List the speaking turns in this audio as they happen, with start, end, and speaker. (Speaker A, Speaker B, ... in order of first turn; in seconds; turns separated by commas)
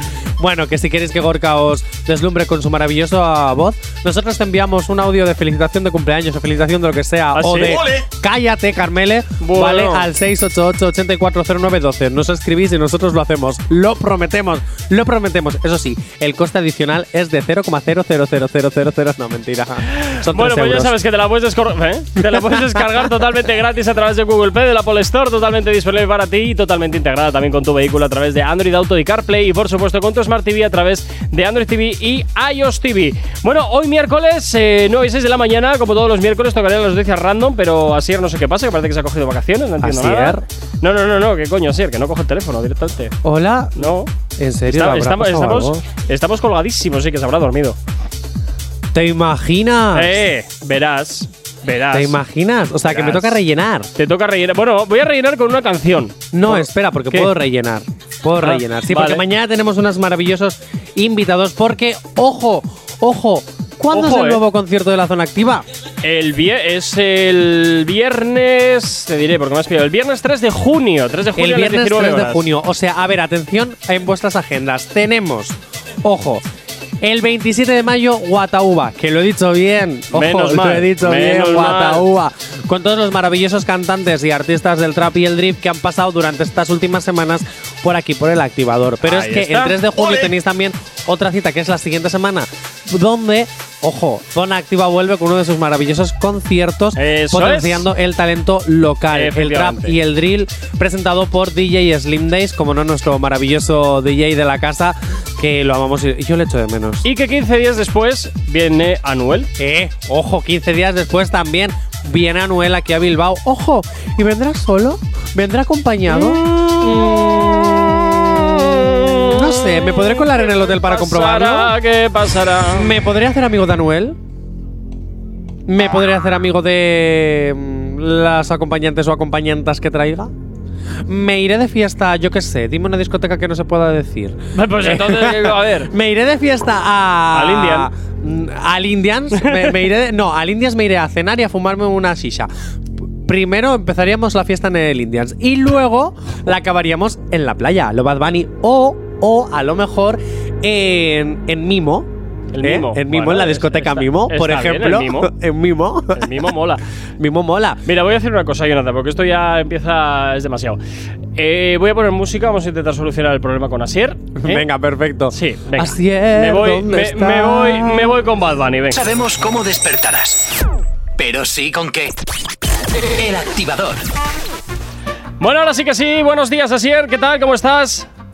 Speaker A: 0.4-20.9, Speaker B: 7.3-8.0, Speaker B: 9.4-10.1, Speaker B: 20.0-43.2, Speaker A: 22.2-22.9, Speaker A: 39.8-40.4, Speaker A: 43.2-45.8, Speaker B: 43.8-44.1, Speaker B: 44.7-47.8, Speaker A: 48.9-50.2, Speaker B: 49.9-52.2, Speaker A: 51.9-53.9, Speaker B: 52.9-53.4, Speaker B: 54.0-57.3, Speaker A: 56.3-65.7, Speaker B: 58.4-59.2, Speaker B: 63.9-64.4, Speaker B: 66.0-72.5, Speaker A: 71.4-76.4, Speaker A: 77.0-107.1, Speaker B: 80.1-82.1, Speaker B: 89.0-90.3, Speaker B: 97.0-97.9, Speaker B: 99.1-100.0, Speaker B: 107.0-109.5, Speaker A: 109.6-121.8, Speaker B: 116.1-122.9, Speaker A: 122.7-124.2, Speaker A: 125.7-130.3, Speaker A: 131.1-142.5, Speaker B: 134.5-135.9, Speaker B: 137.3-137.9, Speaker B: 139.4-139.8, Speaker A: 143.2-152.1, Speaker B: 152.5-155.3, Speaker A: 152.6-156.5, Speaker B: 156.1-156.8, Speaker A: 157.2-157.8, Speaker B: 157.9-160.8, Speaker B: 161.4-164.7, Speaker A: 164.4-168.2, Speaker B: 165.3-169.0, Speaker C: 168.9-170.5, Speaker C: 171.2-172.2, Speaker C: 173.0-174.0, Speaker B: 175.4-178.1